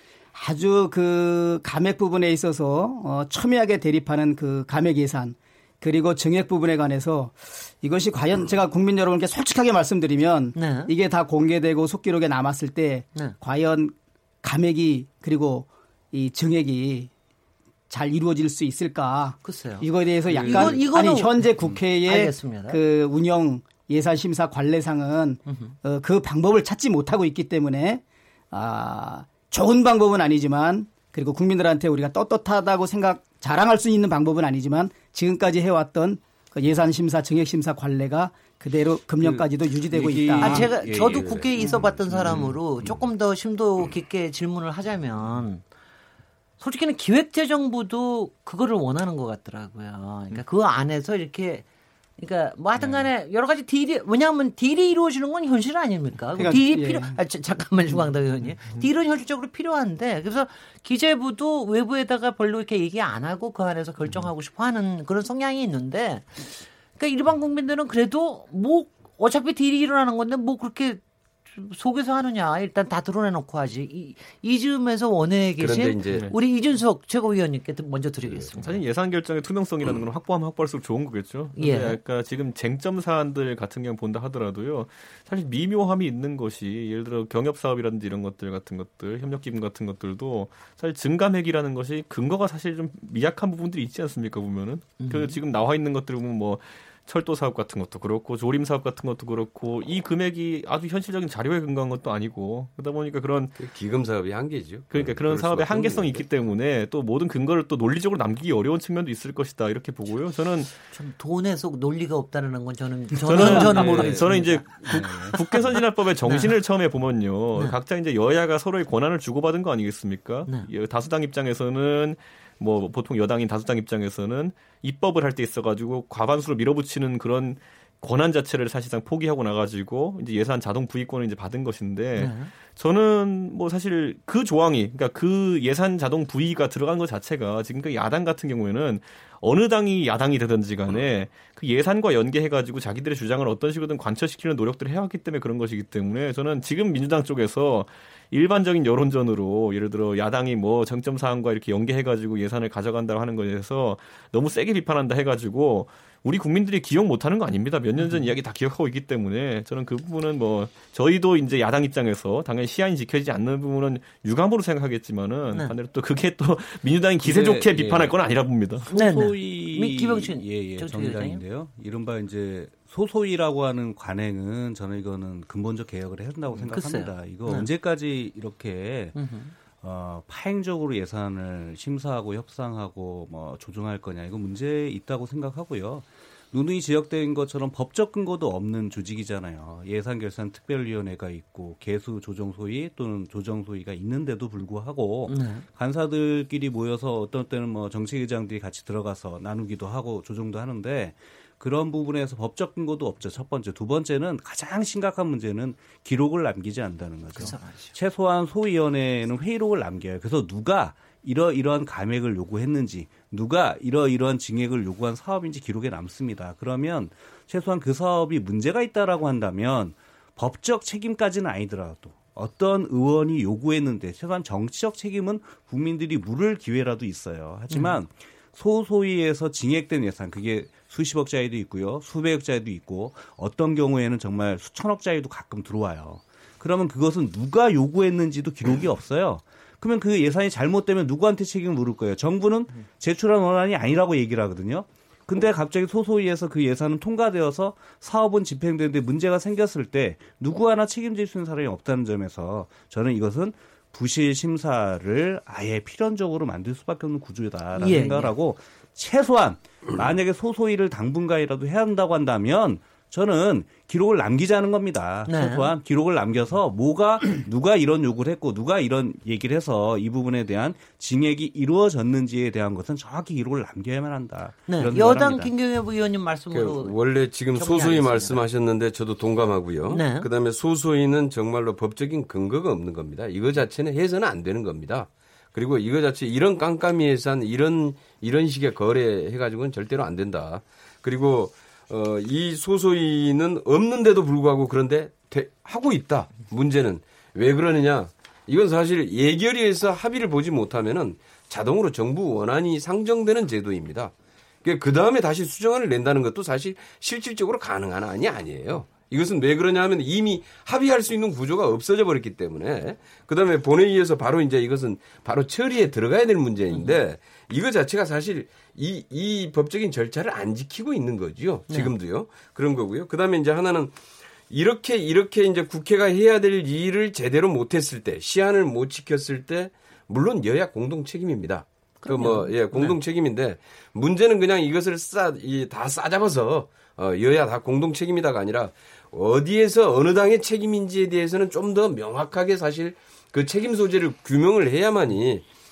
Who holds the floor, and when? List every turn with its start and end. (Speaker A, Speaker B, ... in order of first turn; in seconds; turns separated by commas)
Speaker A: 0.3-17.1, Speaker B: 10.6-10.9, Speaker A: 17.9-40.7, Speaker B: 19.4-22.8, Speaker C: 20.3-20.7, Speaker B: 25.5-25.7, Speaker C: 39.2-41.5, Speaker B: 40.4-45.6, Speaker D: 41.0-41.7, Speaker B: 46.6-51.6, Speaker B: 52.2-78.8, Speaker A: 56.3-57.2, Speaker D: 75.6-76.3, Speaker E: 78.6-103.6, Speaker B: 81.5-82.0, Speaker B: 95.0-95.4, Speaker D: 103.6-106.2, Speaker E: 104.9-110.7, Speaker B: 110.8-115.7, Speaker E: 113.2-168.9, Speaker D: 113.4-114.2, Speaker C: 113.8-114.2, Speaker C: 114.8-115.4, Speaker B: 116.2-116.5, Speaker B: 132.2-132.5, Speaker B: 158.0-158.2, Speaker D: 167.2-168.1, Speaker C: 168.8-179.2, Speaker B: 168.9-171.4, Speaker B: 176.7-177.7, Speaker B: 179.1-179.5, Speaker C: 179.8-275.5, Speaker B: 195.3-195.6, Speaker B: 207.4-207.9, Speaker B: 257.8-258.3, Speaker B: 265.3-265.7, Speaker B: 274.7-277.0, Speaker D: 276.5-323.9, Speaker B: 277.5-278.4, Speaker B: 279.9-280.3, Speaker B: 316.7-317.0, Speaker D: 324.5-345.4, Speaker B: 332.0-332.9